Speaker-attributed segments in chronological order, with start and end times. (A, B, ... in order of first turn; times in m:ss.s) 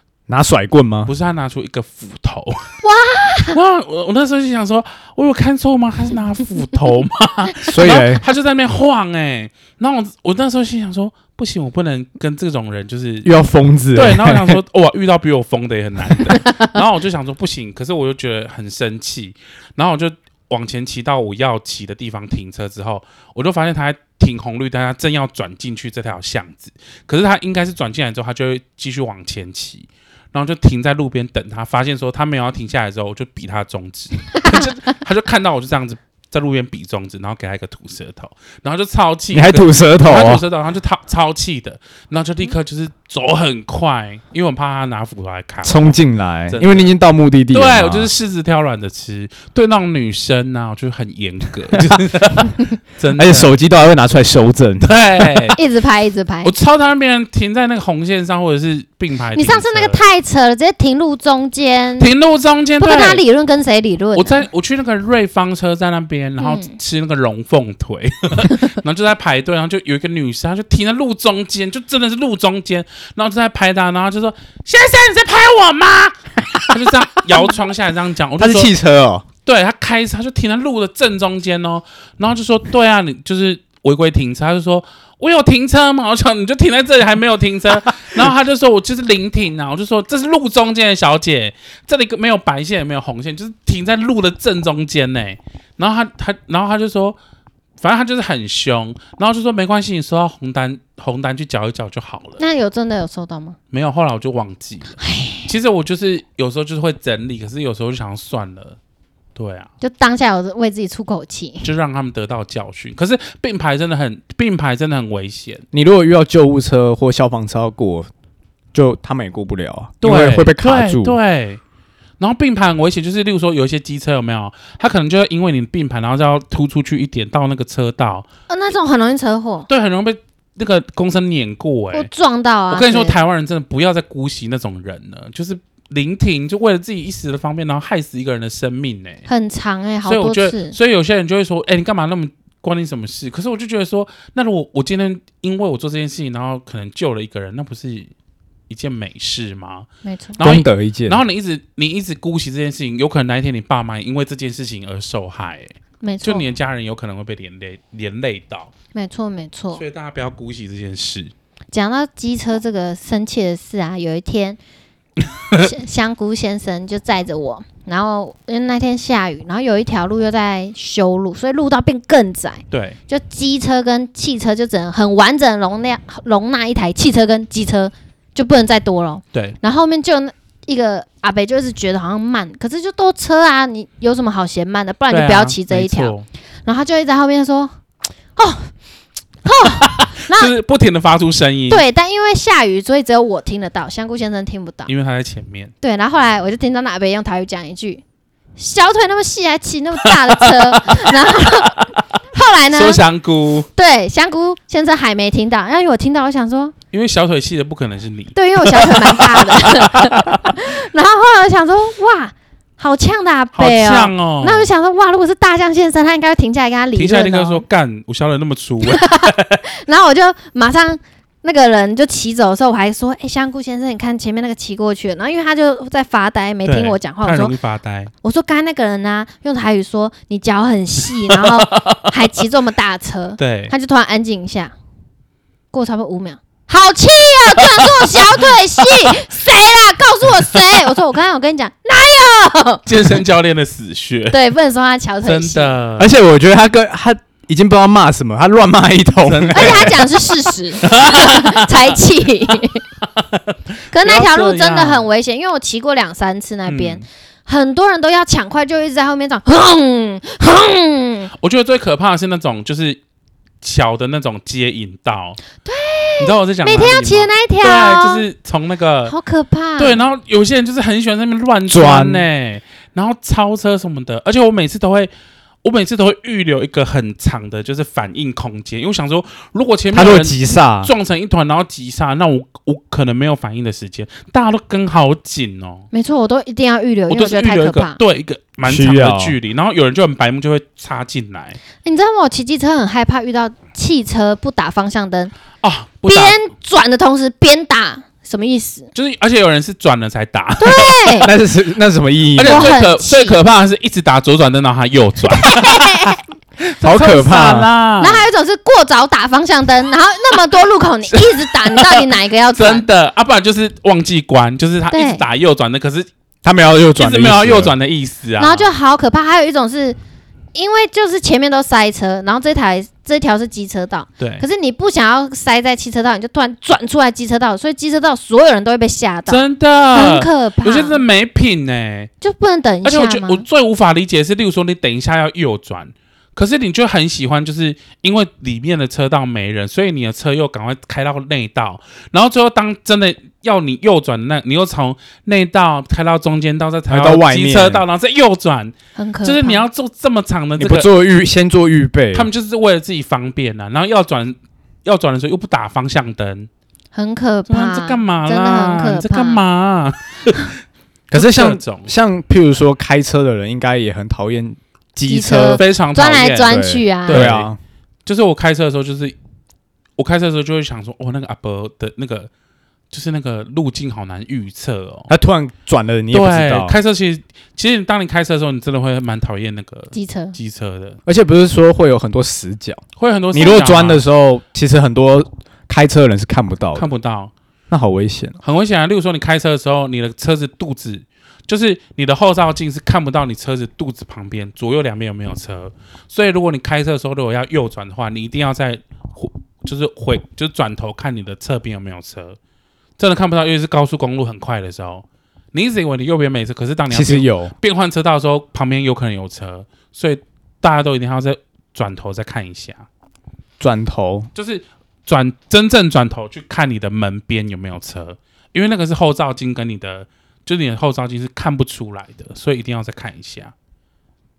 0:00.3-0:01.1 A
0:01.0-0:02.6 B
0:02.8-0:03.6 C
0:03.5-0:13.3 B
0:07.6-0:08.2 A
0:13.2-0:14.6 A
0:13.9-0:46.0 B
0:39.3-0:40.4 A
0:45.6-0:48.1 A
0:46.5-0:46.9 B
0:47.5-0:53.5 B
0:51.7-0:52.0 A
0:53.1-0:55.4 A
0:54.8-0:55.6 B
0:55.5-0:56.5 C
0:56.4-1:00.0 B
0:59.3-1:02.1 C
1:02.0-1:03.2 B
1:02.8-1:04.4 C
1:04.1-1:18.7 B
1:06.4-1:06.8 C
1:18.4-1:19.2 A
1:19.4-1:37.2 B
1:37.8-1:42.4 B
1:42.4-1:43.6 C
1:43.7-1:48.8 B
1:45.0-1:45.5 C
1:49.4-1:49.7 B
1:49.8-1:51.7 C
1:51.6-1:55.6 B
1:55.7-1:58.1 A
1:58.7-2:01.2 A
2:00.0-2:01.6 B
2:02.2-2:08.2 B
2:08.5-2:09.7 C
2:09.7-2:12.1 B
2:11.9-2:13.2 C
2:12.7-2:19.2 B
2:19.3-2:20.7 C
2:20.0-2:28.1 B
2:28.7-2:38.7 B
2:30.0-2:30.4 C
2:30.4-2:31.2 A
2:36.0-2:36.4 C
2:38.9-2:39.8 C
2:39.7-2:41.3 B
2:41.7-2:44.6 C
2:45.6-3:06.1 C
2:52.7-2:53.0 B
3:05.1-3:06.2 B
3:06.6-3:07.8 C
3:08.4-3:08.7 C
3:09.4-3:10.5 C
3:09.6-3:11.8 B
3:11.7-3:14.9 C
3:14.9-3:15.7 B
3:15.8-3:18.0 C
3:18.6-3:23.0 C
3:20.3-3:21.8 B
3:22.7-3:23.7 B
3:23.8-3:26.7 C
3:26.9-3:30.6 B
3:28.3-3:37.6 C
3:33.5-3:34.7 B
3:37.0-3:39.6 B
3:38.8-3:47.5 C
3:46.6-3:48.1 B
3:48.2-3:54.7 C
3:51.3-3:52.2 B
3:53.4-3:53.7 B
3:55.7-4:03.2 C
3:57.8-3:58.5 B
4:02.8-4:04.4 B
4:04.3-4:05.8 C
4:05.2-4:06.1 B
4:06.0-4:10.0 A
4:09.2-4:10.1 B
4:09.5-4:12.8 C
4:10.8-4:12.0 B
4:13.2-4:15.1 B
4:13.9-4:21.3 C
4:16.7-4:17.0 B
4:21.4-4:23.0 B
4:23.6-4:25.4 B
4:25.6-4:28.2 C
4:26.2-4:29.1 B
4:29.1-4:30.0 C
4:29.8-4:35.1 B
4:31.7-4:32.3 A
4:35.6-4:45.9 B
4:39.9-4:40.9 A
4:45.9-4:48.0 C
4:47.1-4:51.6 B
4:48.6-4:49.4 A
4:51.8-4:55.3 C
4:55.6-4:56.4 B
4:56.0-4:58.9 C
4:58.9-5:01.3 B
5:00.6-5:01.3 C
5:01.2-5:02.8 A
5:02.4-5:05.9 B
5:02.4-5:03.4 C
5:05.3-5:06.2 C
5:06.7-5:08.2 B
5:06.8-5:07.7 A
5:08.0-5:12.8 C
5:11.1-5:16.1 B
5:14.9-5:15.2 C
5:16.4-5:17.7 A
5:17.0-5:18.7 B
5:18.4-5:20.0 C
5:20.5-5:31.0 C
5:24.2-5:24.4 B
5:29.3-5:32.1 B
5:32.2-5:33.4 C
5:32.8-5:50.9 B
5:46.9-5:47.8 A
5:49.0-5:49.6 C
5:50.6-5:52.3 A
5:52.1-5:56.5 B
5:56.9-5:59.4 C
5:57.5-6:00.5 B
6:01.1-6:05.6 A
6:01.1-6:01.9 B
6:05.1-6:07.3 C
6:05.5-6:07.5 B
6:06.5-6:07.6 A
6:08.0-6:09.2 B
6:10.0-6:12.3 B
6:12.9-6:15.1 B
6:15.1-6:16.8 A
6:16.1-6:21.0 B
6:19.9-6:20.4 C
6:21.0-6:26.9 A
6:23.0-6:24.0 B
6:26.7-6:27.3 B
6:27.7-6:28.4 A
6:28.4-6:42.4 B
6:43.0-6:52.8 B
6:46.9-6:47.5 A
6:53.6-6:54.3 A
6:54.3-7:03.5 B